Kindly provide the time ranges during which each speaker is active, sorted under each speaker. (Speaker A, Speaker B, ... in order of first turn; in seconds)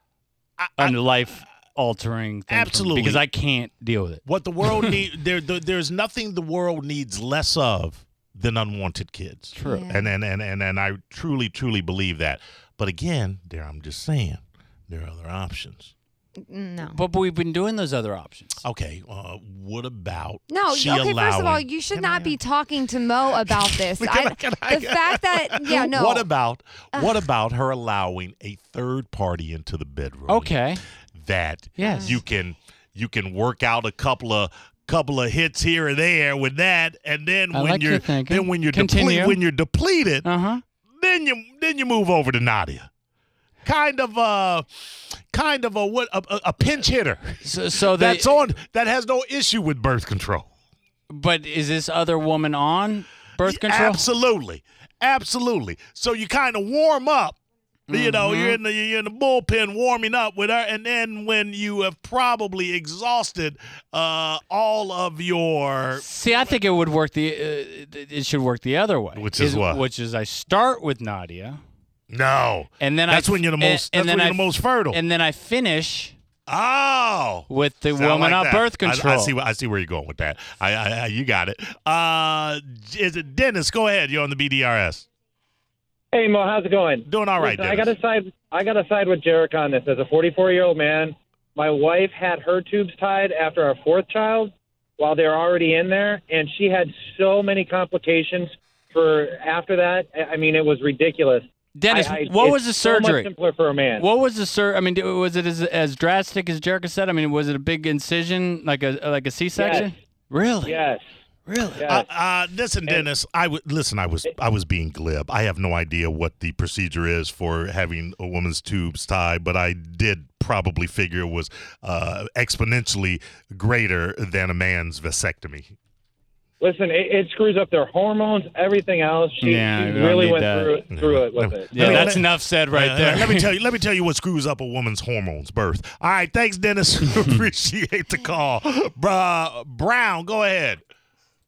Speaker A: 0.6-1.4, 2.5-3.2, 4.2-15.9, 18.6-22.4, 23.4-30.5, 31.2-40.3, 41.0-42.9, 43.6-44.7, 45.3-50.5, 53.4-57.4, 57.9-66.1, 69.1-69.8, 72.1-75.0, 76.5-85.0, 87.0-87.9, 111.9-125.7, 130.9-140.8
Speaker B: 0.8-5.0, 9.5-9.9, 16.9-18.6, 30.3-30.8, 31.8-32.2, 37.5-39.4, 40.2-40.6, 47.4-48.4, 51.1-54.0, 57.9-58.6, 66.0-71.6, 72.8-76.1, 77.5-79.3, 101.7-103.3, 104.0-110.8, 111.5-111.9, 129.4-130.8, 131.7-133.5
Speaker C: 9.6-10.1, 16.4-17.0, 20.5-26.3, 26.9-27.2
Speaker D: 86.1-104.0, 109.5-109.9, 110.6-111.0, 111.8-112.0, 126.6-132.1